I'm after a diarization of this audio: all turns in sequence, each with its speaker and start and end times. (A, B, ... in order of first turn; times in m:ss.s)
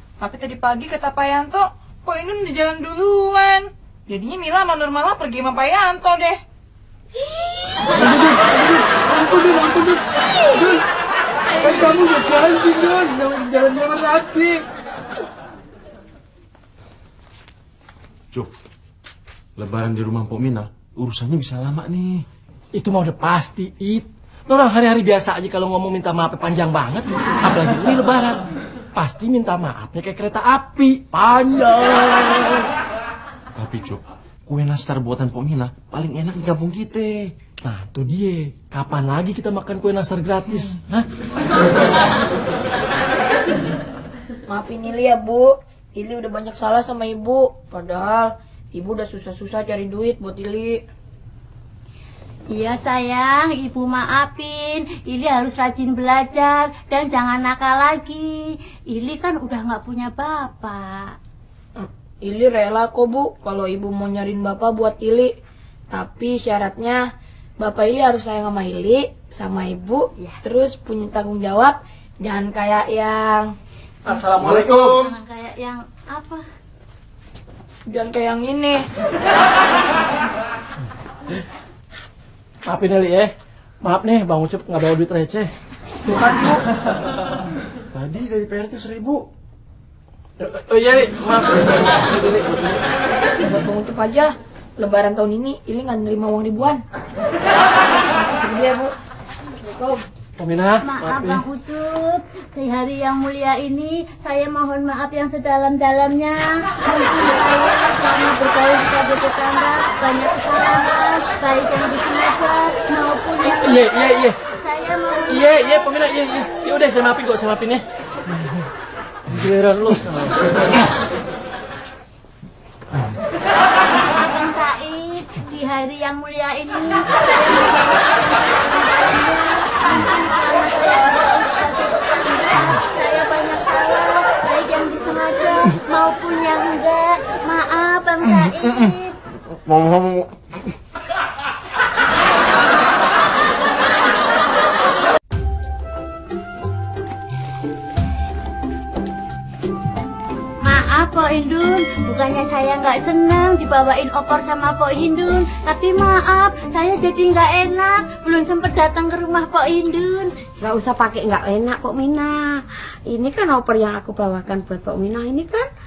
0:00.2-0:06.4 A
0:08.0-0:10.8 B
0:11.6-0:14.6 B
0:19.6-0:22.2 C
0:22.8-0:28.4 B
0:29.0-0:32.7 B
0:33.6-0:37.3 C
0:37.6-0:41.1 B
0:44.5-0:50.8 D
0:52.5-1:01.2 E
1:01.8-1:05.3 D
1:05.9-1:07.1 D
1:07.6-1:13.5 D
1:14.1-1:15.1 B
1:14.2-1:16.4 E
1:14.5-1:14.8 C
1:17.9-1:18.8 D
1:22.7-1:23.3 B
1:23.8-1:25.5 B
1:26.1-1:26.6 D
1:27.9-1:29.2 C
1:30.4-1:32.8 B
1:33.5-1:36.8 D
1:38.4-1:38.9 D
1:39.6-1:40.0 D
1:40.4-1:41.4 B
1:40.8-1:56.1 E
1:53.4-1:54.4 B
1:55.3-1:57.8 B
1:59.3-2:00.4 B
2:04.1-2:19.2 E
2:18.2-2:19.0 C
2:19.5-2:20.4 C
2:30.6-2:40.3 E
2:40.6-2:45.7 F